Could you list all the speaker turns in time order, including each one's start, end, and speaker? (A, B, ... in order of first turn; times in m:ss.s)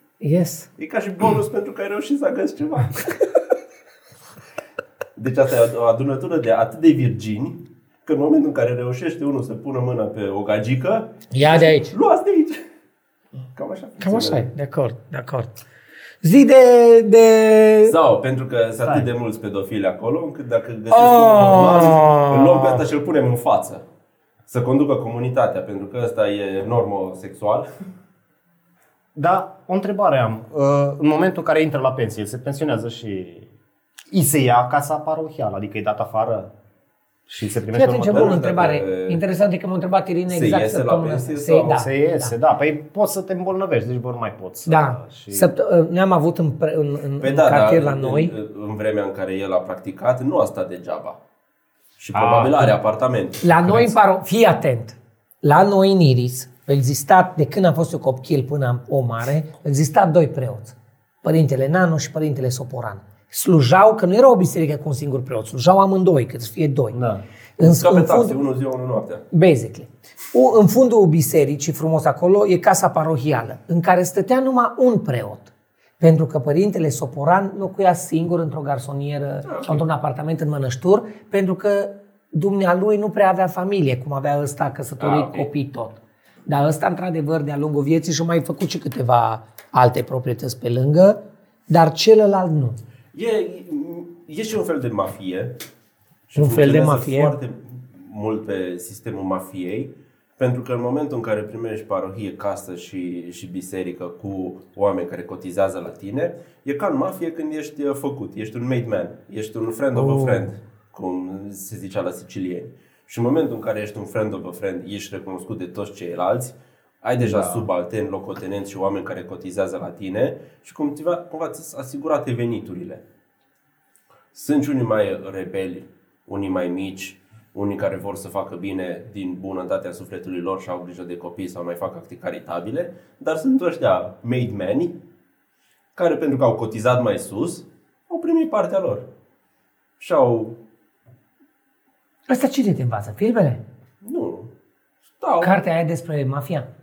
0:00.2-0:00.7 A
0:00.8-0:03.0 B
0:05.2-0:12.6 B
0:11.3-0:11.9 A
0:13.5-0:14.5 B
0:14.0-0:15.6 A
0:16.2-0:18.0 A
0:17.8-0:23.8 B
0:20.9-0:22.8 A
0:24.5-0:27.7 B
0:29.2-0:33.5 C
0:34.1-0:36.5 C
0:37.3-0:38.4 C
0:37.7-0:42.3 A
0:38.1-0:39.2 B
0:40.3-0:41.9 B
0:41.7-0:45.5 C
0:44.7-0:48.3 A
0:47.2-0:51.2 B
0:52.0-0:53.9 B
0:52.1-0:52.7 C
0:53.4-1:07.0 A
1:06.9-1:07.2 C
1:07.6-1:08.4 A
1:07.6-1:09.2 B
1:09.3-1:32.8 A
1:19.5-1:19.8 B
1:25.0-1:25.5 B
1:33.1-1:35.6 B
1:36.3-2:03.0 B
1:36.4-1:37.4 A
1:50.0-1:50.5 A
1:57.2-1:57.7 C
2:04.3-2:15.0 B
2:16.0-2:19.0 B
2:20.0-2:20.6 B
2:22.3-2:23.6 A
2:24.0-2:24.5 B
2:25.2-2:25.6 B
2:25.4-2:26.7 A